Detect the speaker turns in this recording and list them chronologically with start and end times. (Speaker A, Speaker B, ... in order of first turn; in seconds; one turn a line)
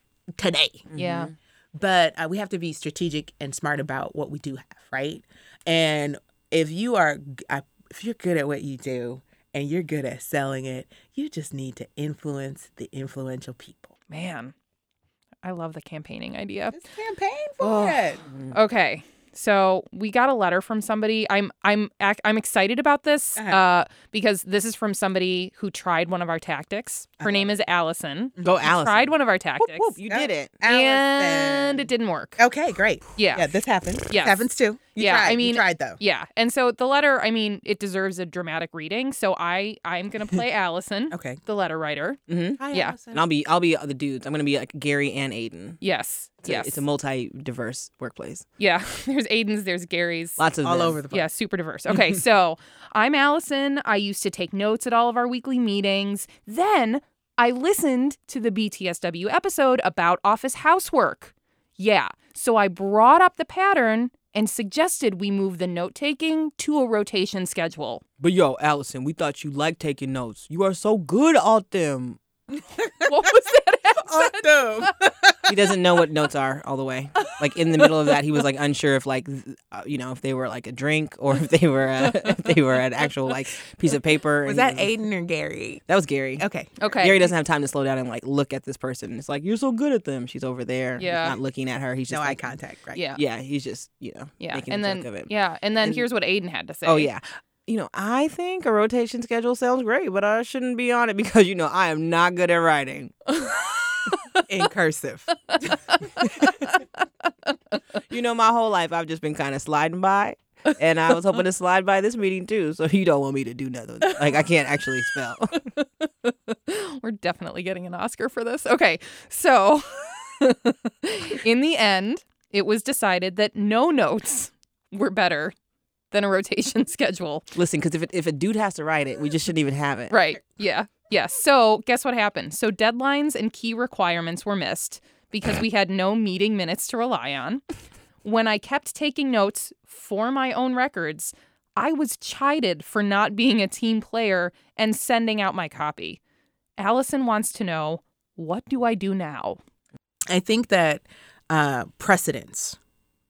Speaker A: 0.4-0.9
Speaker B: 0.9-1.3
Speaker C: 0.9-1.3
Speaker A: 1.8-13.9
Speaker C: 14.1-14.5
Speaker C: 15.4-16.8
Speaker A: 16.7-18.2
Speaker C: 17.6-29.9
Speaker A: 23.4-23.6
Speaker A: 27.2-27.5
Speaker A: 28.4-28.7
Speaker B: 28.4-30.5
Speaker A: 30.1-36.0
Speaker C: 30.6-32.4
Speaker C: 33.1-33.5
Speaker C: 34.1-42.2
Speaker A: 41.1-41.4
Speaker B: 42.3-45.8
Speaker A: 42.6-43.2
Speaker C: 42.7-43.0
Speaker C: 45.8-46.8
Speaker B: 46.4-48.4
Speaker C: 48.6-50.4
Speaker B: 50.4-51.0
Speaker A: 50.6-51.3
Speaker C: 51.1-68.0
Speaker B: 68.2-72.2
Speaker A: 72.7-75.6
Speaker C: 73.0-74.9
Speaker B: 75.5-84.9
Speaker C: 77.2-78.2
Speaker C: 82.0-82.5
Speaker A: 84.5-85.8
Speaker B: 85.9-92.5
Speaker A: 86.4-86.8
Speaker C: 86.8-87.3
Speaker C: 91.0-91.4
Speaker A: 92.1-93.0
Speaker C: 92.9-93.2
Speaker B: 93.2-96.1
Speaker C: 94.4-97.1
Speaker B: 96.8-103.3
Speaker C: 103.3-104.5
Speaker A: 104.5-106.3
Speaker C: 106.2-106.8
Speaker B: 108.1-115.6
Speaker C: 115.8-125.5
Speaker C: 126.1-127.5
Speaker B: 127.5-130.1
Speaker C: 130.1-137.6
Speaker C: 138.2-146.2
Speaker C: 146.8-149.6
Speaker A: 150.3-152.8